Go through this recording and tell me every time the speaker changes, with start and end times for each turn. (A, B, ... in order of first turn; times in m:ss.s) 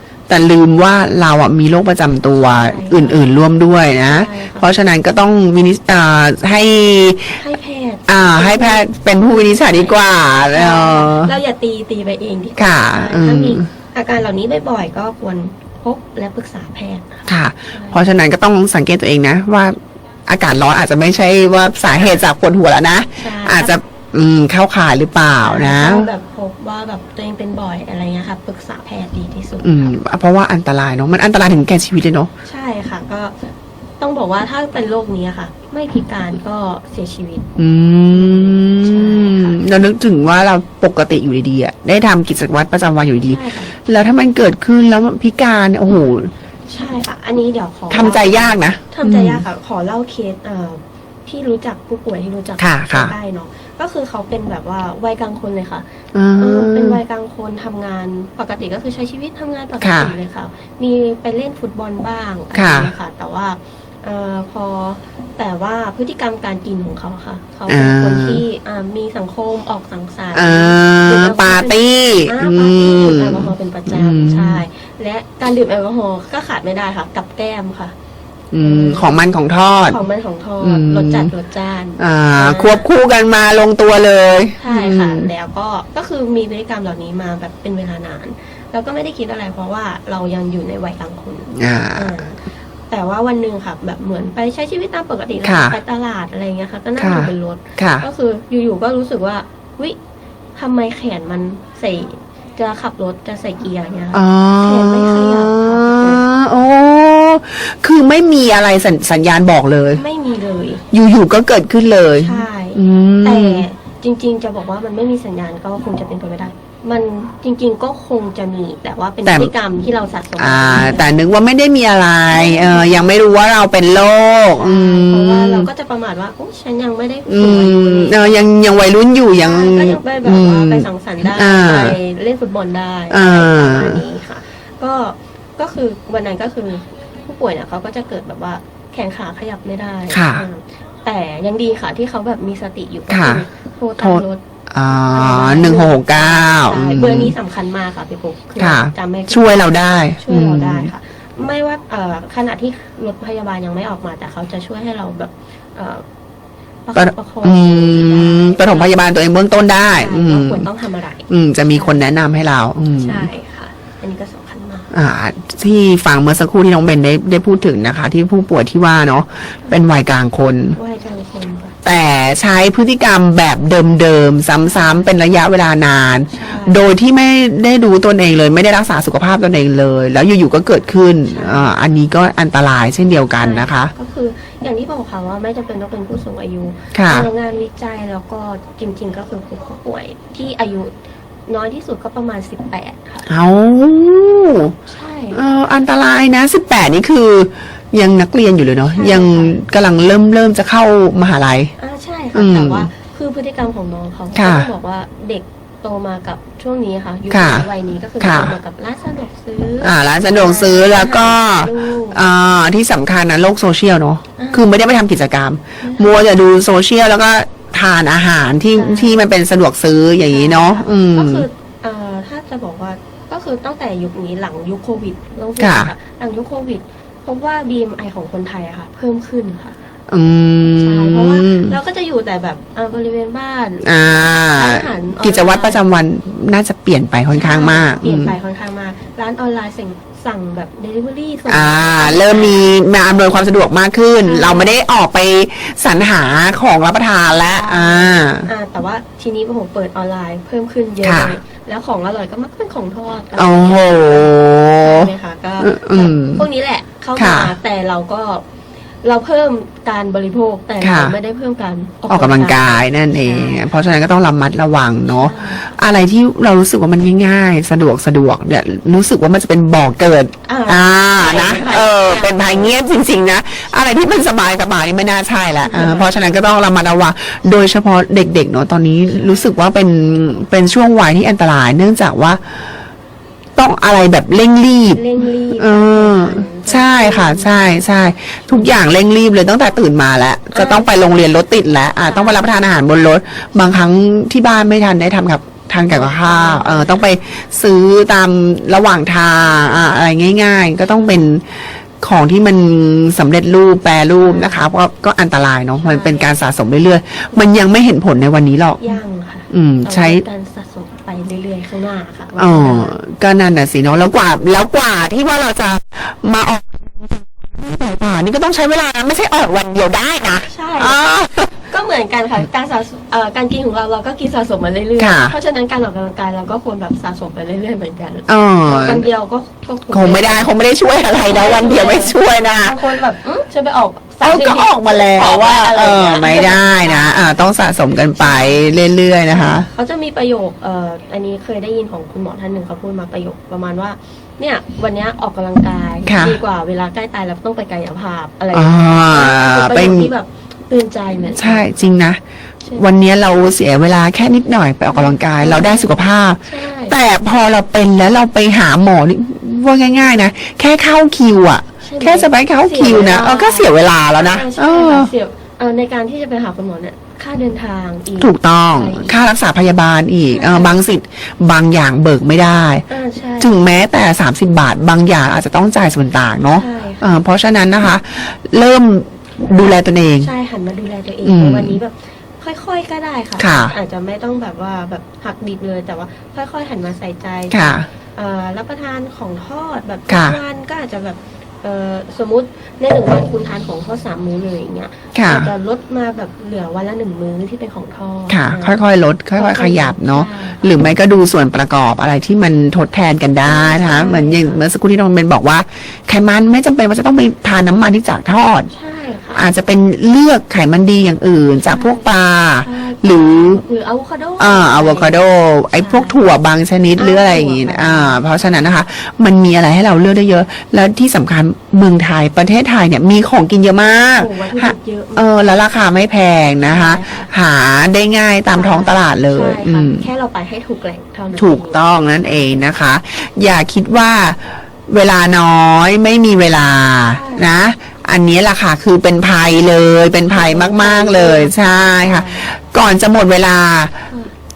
0:00.3-0:07.4 A
0:02.5-0:03.2 B
0:04.1-0:04.7 B
0:07.4-0:10.0 B
0:08.1-0:11.3 A
0:10.5-0:18.0 B
0:12.6-0:13.7 A
0:17.3-0:26.1 A
0:23.2-0:23.8 B
0:25.4-0:29.8 B
0:29.6-0:32.3 A
0:32.4-0:33.5 B
0:34.0-0:37.5 B
0:37.6-0:46.3 A
0:38.1-0:39.7 B
0:43.3-0:43.7 B
0:46.7-0:55.8 B
0:47.9-0:49.4 A
0:52.6-0:53.1 A
0:56.1-0:57.0 A
0:56.4-1:17.9 B
0:59.8-1:00.1 A
1:02.5-1:02.9 A
1:07.7-1:08.4 A
1:10.3-1:14.6 A
1:18.5-1:20.0 A
1:18.6-1:19.2 B
1:19.9-1:22.9 B
1:20.6-1:21.3 A
1:22.0-1:25.3 A
1:24.6-1:40.0 B
1:31.6-1:32.2 A
1:35.4-1:35.8 A
1:37.0-1:38.1 A
1:40.6-1:46.2 B
1:44.1-1:50.0 A
1:50.0-1:50.8 B
1:50.9-1:53.6 A
1:52.2-2:01.1 B
1:59.2-1:59.5 A
2:00.4-2:05.7 A
2:02.3-2:03.2 B
2:04.6-2:08.5 B
2:07.3-2:12.0 A
2:09.4-2:24.4 B
2:13.1-2:14.0 A
2:20.1-2:20.5 A
2:23.1-2:23.5 A
2:24.0-2:27.4 A
2:25.1-2:36.0 B
2:28.6-2:30.9 A
2:36.9-2:39.0 B
2:37.0-2:40.7 A
2:40.0-2:42.0 B
2:41.3-2:43.3 A
2:43.0-2:44.9 B
2:44.9-2:50.8 A
2:50.7-2:51.8 B
2:51.8-3:03.9 A
2:54.6-2:55.1 B
2:56.3-2:56.8 B
3:01.3-3:01.7 B
3:03.4-3:10.9 B
3:06.9-3:07.3 A
3:11.5-3:13.3 B
3:13.3-3:14.8 A
3:14.9-3:15.4 B
3:15.3-3:21.7 A
3:18.9-3:19.6 B
3:21.8-3:32.2 B
3:22.4-3:22.9 A
3:24.4-3:24.7 A
3:27.3-3:27.7 A
3:28.2-3:28.5 A
3:29.8-3:41.4 A
3:34.4-3:34.8 B
3:35.8-3:36.2 B
3:38.8-3:39.2 B
3:40.3-3:49.8 B
3:45.6-3:45.9 A
3:50.1-3:51.8 A
3:50.8-3:55.8 B
3:53.8-3:58.3 A
3:57.3-4:02.6 B
4:01.5-4:08.5 A
4:04.2-4:04.8 B
4:07.6-4:18.4 B
4:11.0-4:11.4 A
4:13.4-4:16.5 A
4:17.2-4:17.6 A
4:19.0-4:23.7 B
4:20.8-4:21.2 A
4:22.1-4:42.8 A
4:25.1-4:25.7 B
4:30.5-4:32.7 B
4:35.6-4:36.1 B
4:39.2-4:39.4 B
4:43.6-5:09.0 A
4:44.9-4:47.8 B
4:48.5-4:48.7 B
4:50.5-4:50.9 B
4:52.0-4:52.5 B
4:55.8-4:57.1 B
4:59.6-4:59.9 B
5:04.2-5:04.6 B
5:05.8-5:06.3 B
5:08.8-5:13.0 B
5:09.5-5:10.2 A
5:12.4-5:21.5 A
5:20.5-5:21.1 B
5:21.6-5:30.5 B
5:25.0-5:25.4 A
5:28.3-5:29.0 A
5:29.9-5:32.8 A
5:31.2-5:37.5 B
5:34.2-5:39.7 A
5:38.2-5:38.7 B
5:39.3-5:51.9 B
5:46.1-5:46.4 A
5:48.5-5:50.1 A
5:51.4-5:52.2 A
5:52.8-6:05.1 A
5:54.9-5:57.0 B
6:01.8-6:09.2 B
6:08.2-6:12.9 A
6:10.3-6:10.8 B
6:12.9-6:13.6 B
6:13.4-6:20.3 A
6:16.6-6:17.1 B
6:20.2-6:38.8 B
6:21.2-6:21.8 A
6:23.4-6:23.7 A
6:27.5-6:27.9 A
6:30.1-6:30.4 A
6:35.2-6:35.5 A
6:38.3-6:48.7 A
6:39.4-6:40.7 B
6:43.4-6:44.6 B
6:48.7-6:49.5 B
6:49.4-6:53.6 A
6:51.7-6:52.1 B
6:52.6-6:55.2 B
6:54.4-7:10.1 A
6:55.7-6:56.2 B
6:57.0-6:58.9 B
7:04.1-7:05.5 B
7:06.6-7:07.3 B
7:08.5-7:11.8 B
7:11.4-7:24.1 A
7:17.1-7:17.6 B
7:20.3-7:22.5 B